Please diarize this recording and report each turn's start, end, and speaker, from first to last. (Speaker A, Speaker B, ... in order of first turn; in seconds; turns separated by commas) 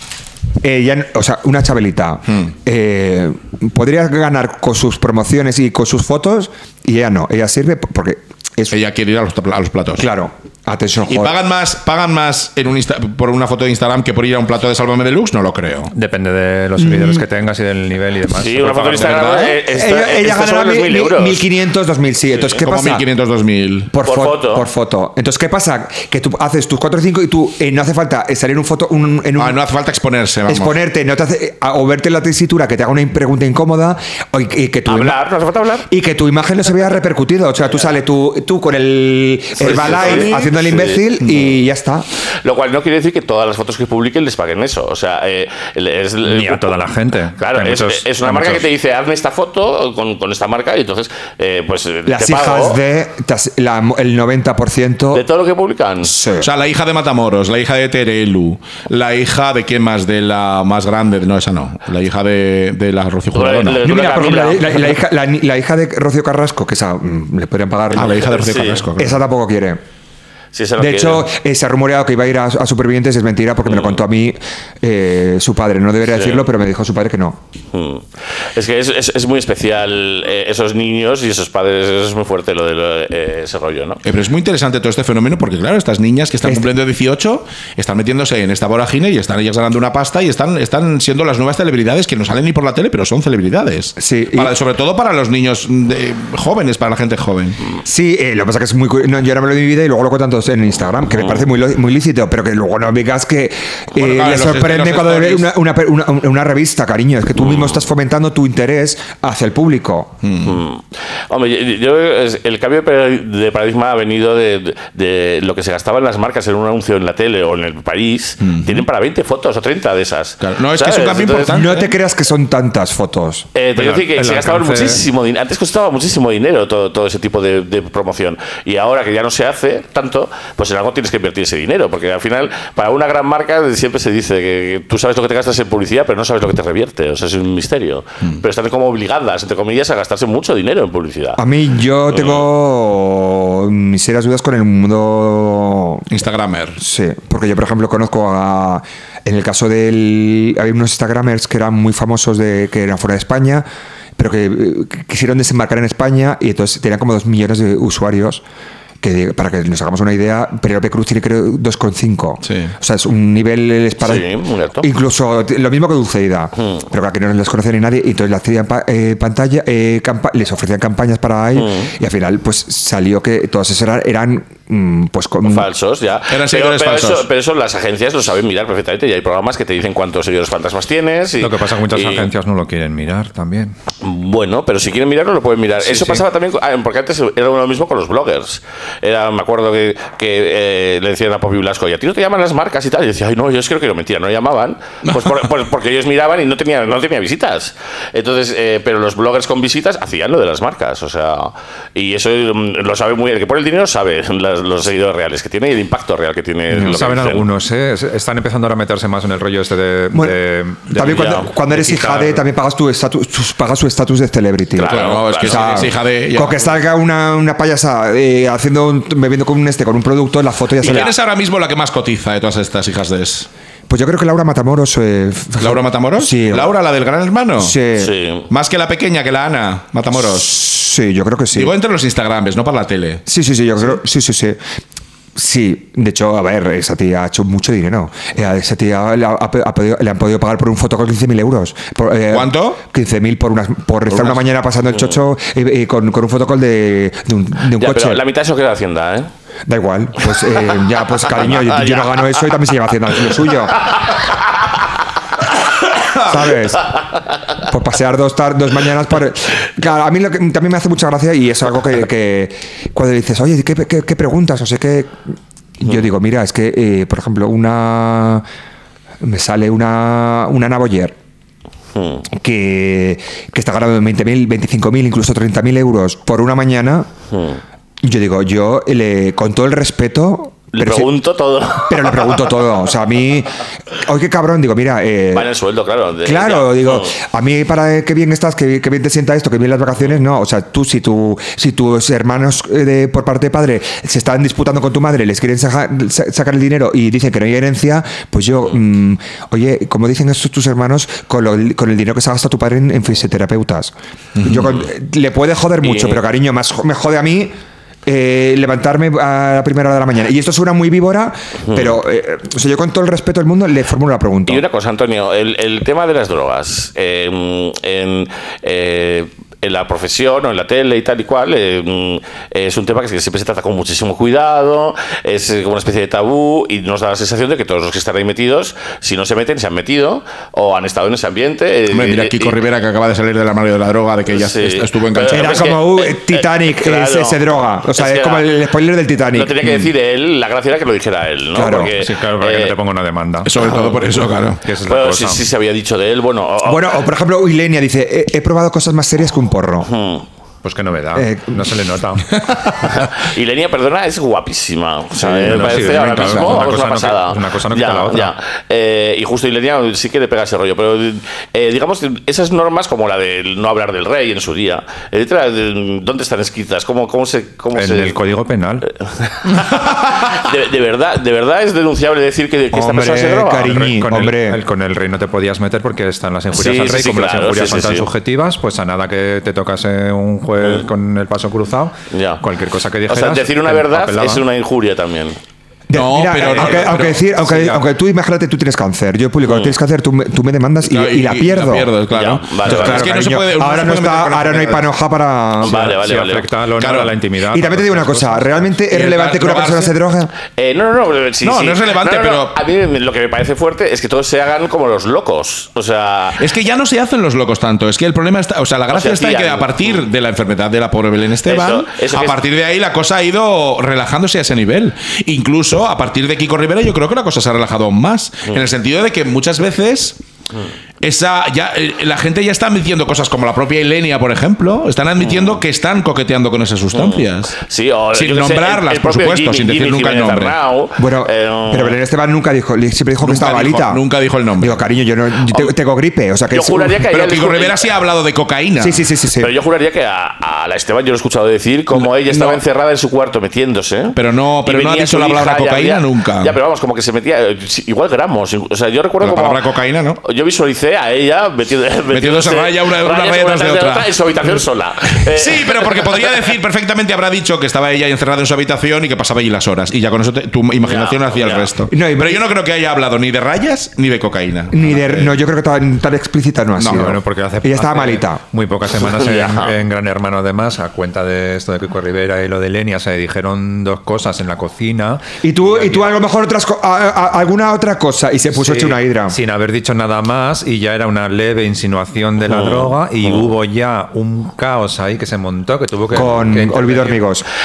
Speaker A: 0.6-8.7, Speaker B: 8.7-10.1, Speaker A: 10.0-11.3, Speaker B: 11.1-15.9, Speaker C: 15.9-19.4, Speaker A: 16.8-17.3, Speaker D: 18.4-21.4, Speaker B: 18.9-19.5, Speaker A: 19.7-23.0, Speaker D: 22.3-22.6, Speaker B: 22.6-23.9, Speaker A: 23.9-29.6, Speaker D: 24.1-24.7, Speaker B: 29.4-30.8, Speaker A: 30.5-35.2, Speaker D: 34.9-35.9, Speaker A: 35.9-42.0, Speaker B: 39.6-40.5, Speaker D: 39.6-41.0, Speaker D: 42.4-46.8, Speaker C: 46.2-48.6, Speaker D: 47.4-52.8, Speaker A: 52.0-55.2, Speaker D: 55.1-56.1, Speaker A: 56.0-56.5, Speaker B: 56.4-63.8, Speaker D: 63.3-64.9, Speaker A: 63.8-68.3, Speaker B: 67.9-69.2, Speaker D: 68.2-68.8, Speaker A: 69.0-69.8, Speaker D: 70.5-71.3, Speaker A: 70.8-77.4, Speaker D: 73.7-74.0, Speaker D: 76.1-76.4, Speaker D: 77.7-84.0, Speaker B: 84.0-97.6, Speaker A: 94.0-94.5, Speaker A: 97.8-110.2, Speaker B: 103.9-105.5, Speaker B: 110.2-110.6, Speaker D: 110.4-121.6, Speaker B: 118.4-118.8, Speaker B: 120.4-121.9, Speaker A: 121.5-123.5, Speaker D: 123.5-141.4, Speaker C: 123.8-125.0, Speaker A: 141.4-146.1, Speaker B: 146.1-146.8, Speaker A: 146.8-153.7, Speaker A: 154.2-158.4, Speaker A: 159.0-175.7, Speaker B: 162.4-162.7, Speaker D: 164.0-164.9, Speaker D: 171.6-171.9, Speaker D: 175.4-182.3, Speaker B: 176.3-177.3, Speaker C: 181.4-183.8, Speaker D: 184.0-207.5, Speaker C: 185.8-186.2, Speaker C: 206.7-212.4, Speaker A: 210.1-221.1, Speaker D: 211.1-211.5, Speaker D: 214.8-215.9, Speaker B: 214.8-216.6, Speaker B: 220.8-223.5, Speaker A: 223.9-226.7, Speaker B: 225.6-227.8, Speaker A: 227.6-228.1, Speaker D: 228.0-228.5, Speaker B: 228.5-230.6, Speaker A: 230.2-231.7, Speaker B: 231.5-233.2, Speaker A: 233.3-234.6, Speaker A: 235.3-248.2, Speaker B: 242.3-242.8, Speaker B: 244.1-244.4, Speaker D: 247.8-249.3, Speaker A: 249.7-253.9, Speaker D: 251.5-252.3, Speaker A: 256.2-256.9, Speaker A: 257.6-265.2, Speaker A: 265.8-268.4, Speaker A: 269.2-271.1, Speaker D: 271.9-272.2, Speaker A: 272.3-277.1, Speaker D: 277.3-277.6, Speaker A: 278.0-281.1, Speaker D: 280.7-282.4, Speaker A: 281.8-285.5, Speaker D: 285.3-287.1, Speaker A: 286.2-314.6, Speaker B: 304.4-304.7, Speaker D: 305.8-306.2, Speaker D: 314.5-332.6, Speaker B: 331.9-335.6, Speaker D: 334.3-338.5, Speaker A: 335.3-339.8, Speaker D: 339.3-342.7, Speaker A: 341.6-341.9, Speaker C: 341.9-343.5, Speaker B: 343.4-344.6, Speaker C: 344.6-345.4, Speaker D: 344.9-347.0, Speaker A: 346.6-349.9, Speaker D: 349.8-350.3, Speaker C: 350.6-352.3, Speaker A: 351.1-351.6, Speaker B: 352.5-352.8, Speaker D: 353.0-368.2, Speaker C: 355.2-358.3, Speaker B: 355.5-356.4, Speaker C: 367.7-368.9, Speaker D: 368.9-373.8, Speaker A: 372.7-374.6, Speaker C: 373.6-384.4, Speaker D: 376.5-378.1, Speaker D: 380.6-380.9, Speaker D: 382.1-382.4, Speaker D: 383.1-385.4, Speaker A: 385.9-391.9, Speaker B: 385.9-387.2, Speaker C: 386.5-387.8, Speaker B: 390.8-394.9, Speaker D: 392.1-393.1, Speaker A: 392.6-395.9, Speaker D: 395.6-396.5, Speaker C: 395.7-398.7, Speaker B: 396.8-397.1, Speaker A: 397.5-400.3, Speaker B: 398.9-399.9, Speaker D: 400.6-406.4, Speaker B: 401.4-402.6, Speaker B: 406.4-420.2, Speaker D: 408.9-410.1, Speaker D: 411.4-412.4, Speaker B: 421.0-427.6, Speaker D: 425.2-425.6, Speaker D: 426.9-432.0, Speaker B: 428.1-430.6, Speaker A: 431.0-434.0, Speaker B: 433.2-434.8, Speaker A: 434.6-437.0, Speaker D: 436.5-437.9, Speaker B: 437.1-439.0, Speaker A: 438.8-439.5, Speaker D: 439.4-449.6, Speaker B: 442.3-442.6, Speaker B: 444.1-446.6, Speaker B: 449.2-450.2, Speaker D: 450.2-456.5, Speaker B: 452.1-454.6, Speaker B: 455.2-465.3, Speaker D: 460.8-461.7, Speaker A: 461.9-462.4, Speaker A: 464.7-468.4, Speaker B: 466.8-467.0, Speaker C: 466.9-476.1, Speaker D: 469.1-469.7, Speaker A: 475.4-479.4, Speaker C: 479.3-487.2, Speaker D: 482.5-483.5, Speaker A: 486.1-487.4